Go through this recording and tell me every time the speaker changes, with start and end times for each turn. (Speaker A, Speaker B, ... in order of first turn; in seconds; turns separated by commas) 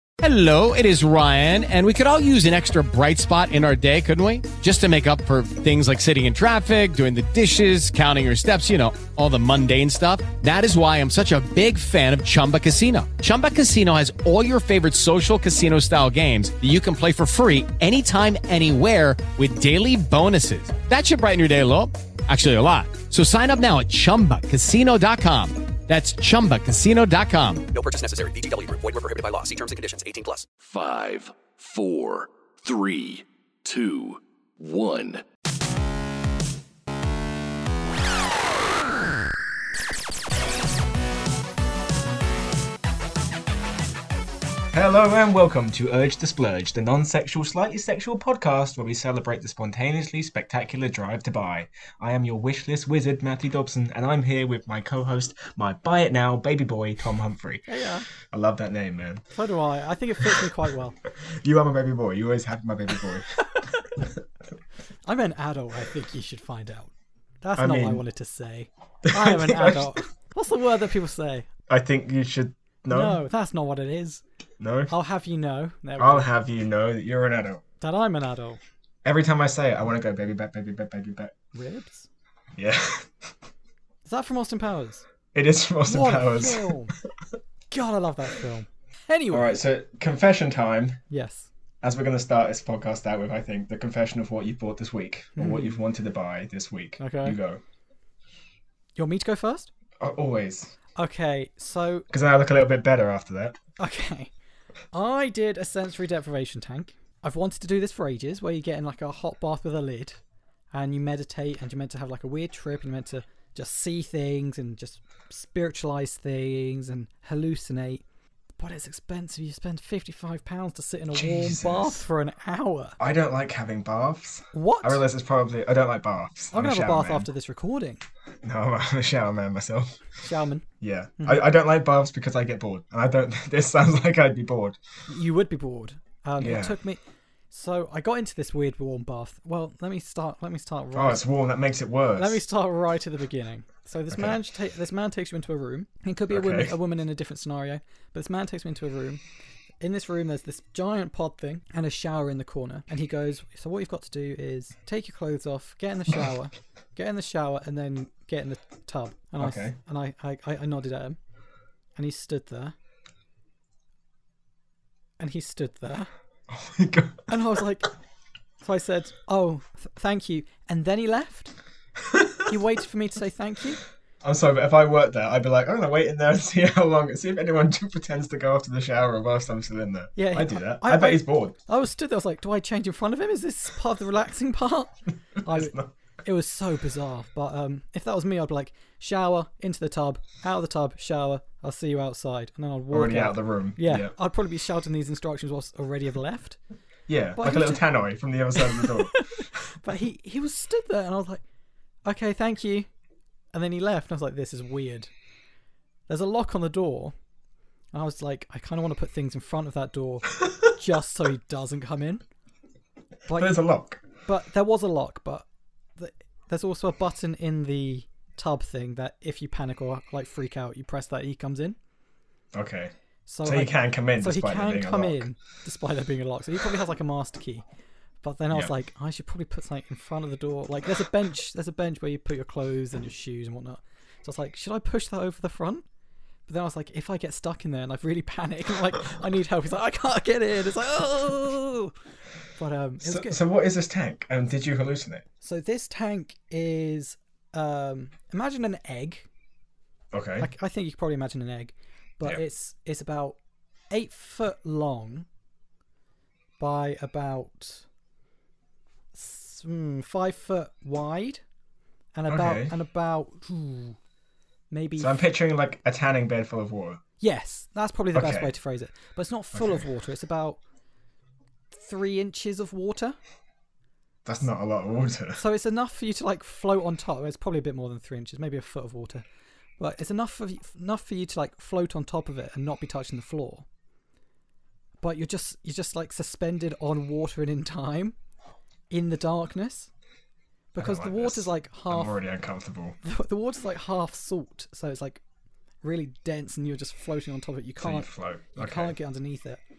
Speaker A: 0.2-27.7, Speaker B: 27.7-30.5, Speaker C: 30.6-35.2, Speaker D: 44.7-59.2, Speaker E: 57.7-58.1, Speaker E: 59.3-61.0, Speaker D: 61.2-63.4, Speaker E: 65.0-66.9, Speaker E: 67.4-71.5, Speaker D: 67.6-68.0, Speaker D: 69.0-70.0, Speaker D: 71.7-73.2, Speaker E: 72.9-74.2, Speaker D: 74.6-74.9, Speaker E: 74.9-76.3, Speaker D: 76.0-77.6, Speaker E: 77.8-78.6, Speaker D: 79.0-81.3, Speaker E: 81.5-82.1, Speaker D: 82.5-83.3, Speaker E: 84.0-85.1, Speaker D: 85.3-86.7, Speaker E: 85.9-86.9, Speaker E: 87.7-89.5, Speaker D: 89.3-91.0, Speaker E: 91.1-91.5, Speaker D: 91.8-97.6, Speaker E: 95.4-95.8, Speaker E: 97.0-97.4, Speaker E: 99.0-99.7, Speaker D: 100.0-100.7, Speaker E: 101.0-102.1, Speaker D: 102.1-103.6, Speaker E: 103.8-104.3, Speaker E: 104.9-110.2, Speaker E: 110.7-118.0, Speaker E: 118.6-123.0, Speaker D: 121.1-122.0, Speaker D: 123.0-127.3, Speaker E: 124.5-125.0, Speaker E: 126.5-128.0, Speaker D: 128.4-130.0, Speaker E: 130.2-130.7, Speaker D: 130.8-134.8, Speaker E: 131.2-131.4, Speaker E: 135.1-141.2, Speaker D: 136.4-136.8, Speaker D: 140.9-142.4, Speaker E: 142.2-149.2, Speaker D: 144.1-144.4, Speaker D: 146.3-146.8, Speaker E: 149.8-161.2, Speaker D: 159.4-159.8, Speaker E: 161.9-162.8, Speaker E: 165.2-166.1, Speaker D: 166.5-167.3, Speaker E: 167.3-167.9, Speaker E: 168.6-171.5, Speaker D: 172.1-172.4, Speaker E: 172.5-173.8, Speaker D: 174.2-181.6, Speaker E: 180.2-196.6, Speaker D: 185.5-185.9, Speaker D: 192.9-194.2, Speaker D: 197.1-199.6, Speaker E: 197.3-197.8, Speaker E: 198.6-201.4, Speaker E: 202.1-202.9, Speaker E: 203.5-205.1, Speaker E: 206.1-207.1, Speaker E: 207.9-212.2, Speaker E: 213.3-213.6, Speaker D: 213.3-214.0, Speaker E: 214.2-215.5, Speaker E: 216.0-221.8, Speaker D: 222.5-222.9, Speaker E: 223.3-227.7, Speaker D: 223.4-225.3, Speaker E: 228.2-235.8, Speaker E: 236.5-241.9, Speaker E: 242.6-243.4, Speaker D: 243.0-245.2, Speaker E: 245.4-249.3, Speaker D: 250.1-250.5, Speaker E: 250.4-253.4, Speaker E: 253.9-255.3, Speaker E: 256.6-257.9, Speaker E: 259.1-261.4, Speaker E: 262.1-264.0, Speaker D: 262.3-262.8, Speaker E: 264.7-265.3, Speaker D: 265.0-267.0, Speaker E: 267.2-270.6, Speaker D: 268.1-268.5, Speaker D: 269.5-269.9, Speaker E: 271.7-273.2, Speaker D: 274.2-275.4, Speaker E: 275.4-279.2, Speaker E: 279.8-283.7, Speaker E: 285.0-288.2, Speaker E: 288.9-289.9, Speaker E: 290.7-292.1, Speaker D: 290.8-293.0, Speaker E: 293.0-295.2, Speaker E: 295.8-299.6, Speaker D: 297.8-299.0